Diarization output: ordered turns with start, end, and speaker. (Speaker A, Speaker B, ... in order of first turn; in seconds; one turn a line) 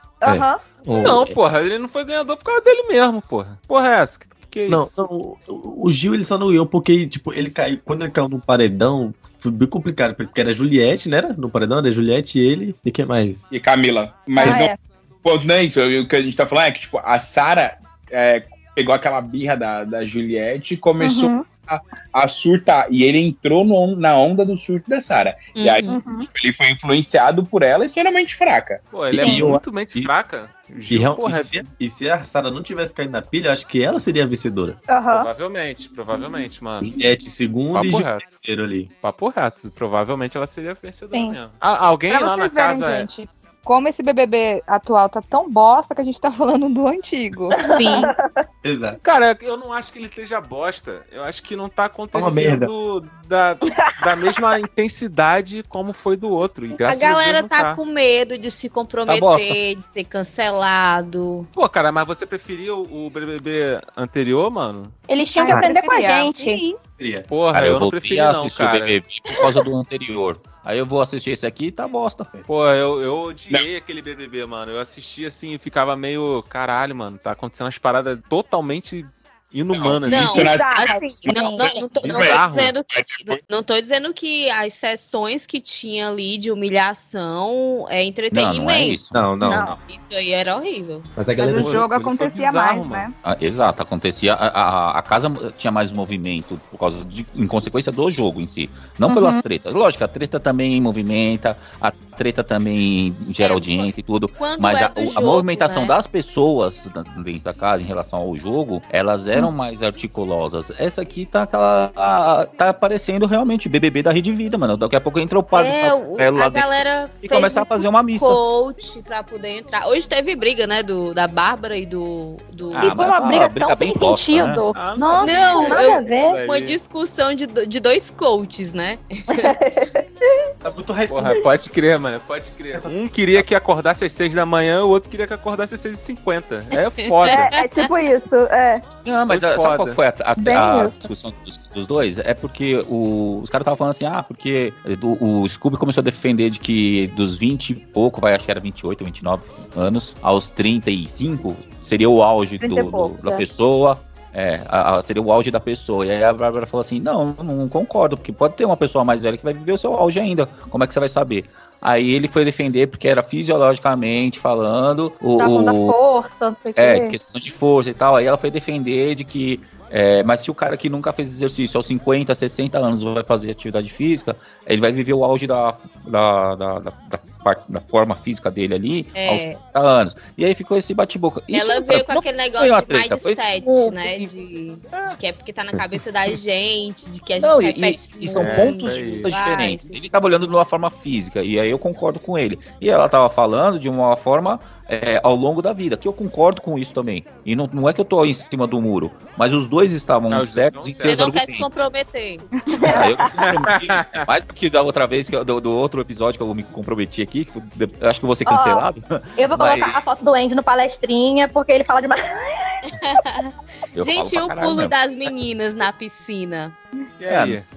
Speaker A: 0.2-0.6
Speaker B: 0.2-1.3
Speaker C: 0.9-4.9
Speaker B: 4.7-13.5
Speaker D: 13.5-28.8
Speaker A: 14.4-14.7
Speaker A: 21.0-21.4
Speaker E: 25.5-26.0
Speaker A: 25.9-26.3
Speaker C: 28.9-31.7
Speaker B: 29.1-30.1
Speaker A: 29.2-29.4
Speaker B: 30.9-34.8
Speaker A: 34.9-35.3
Speaker C: 35.1-37.0
Speaker B: 36.8-38.9
Speaker C: 37.7-38.3
Speaker C: 39.0-43.1
Speaker A: 41.1-41.4
Speaker F: 42.1-47.6
Speaker A: 47.6-48.4
Speaker E: 47.6-48.1
Speaker B: 48.6-49.0
Speaker C: 49.0-57.8
Speaker B: 52.1-52.7
Speaker A: 53.7-53.9
Speaker E: 56.9-61.5
Speaker G: 59.1-59.6
Speaker C: 61.5-64.9
Speaker A: 65.1-66.6
Speaker F: 65.4-66.8
Speaker B: 67.0-67.3
Speaker C: 67.3-69.0
Speaker G: 67.5-72.3
Speaker C: 72.5-80.5
Speaker D: 79.8-83.4
Speaker E: 80.0-89.0
Speaker A: 80.3-81.8
Speaker C: 82.0-82.7
Speaker G: 88.3-89.2
Speaker B: 89.1-89.8
Speaker A: 89.4-89.8
Speaker E: 89.8-91.6
Speaker B: 91.2-91.9
Speaker F: 91.4-93.1
Speaker C: 91.6-93.1
Speaker G: 93.2-116.7
Speaker A: 99.1-99.4
Speaker E: 103.4-106.0
Speaker E: 115.5-123.0
Speaker G: 117.2-118.4
Speaker G: 122.8-124.6
Speaker A: 122.8-126.4
Speaker C: 124.7-126.8
Speaker E: 125.2-129.5
Speaker A: 129.3-130.4
Speaker B: 130.6-131.5
Speaker C: 131.1-137.5
Speaker B: 132.7-133.4
Speaker E: 137.0-137.9
Speaker A: 137.3-138.8
Speaker G: 139.0-166.0
Speaker C: 139.3-140.0
Speaker A: 140.4-141.1
Speaker A: 152.6-153.4
Speaker A: 165.4-167.2
Speaker G: 166.8-184.3
Speaker E: 179.1-179.6
Speaker E: 181.5-189.9
Speaker G: 187.4-201.7
Speaker C: 188.4-189.3
Speaker C: 200.3-201.3
Speaker E: 201.0-202.4
Speaker F: 202.8-203.0
Speaker A: 202.8-203.1
Speaker G: 202.8-210.0
Speaker C: 203.4-204.2
Speaker A: 208.5-208.8
Speaker A: 209.4-212.9
Speaker E: 212.9-216.8
Speaker G: 213.9-214.9
Speaker C: 217.2-217.7
Speaker G: 217.3-217.6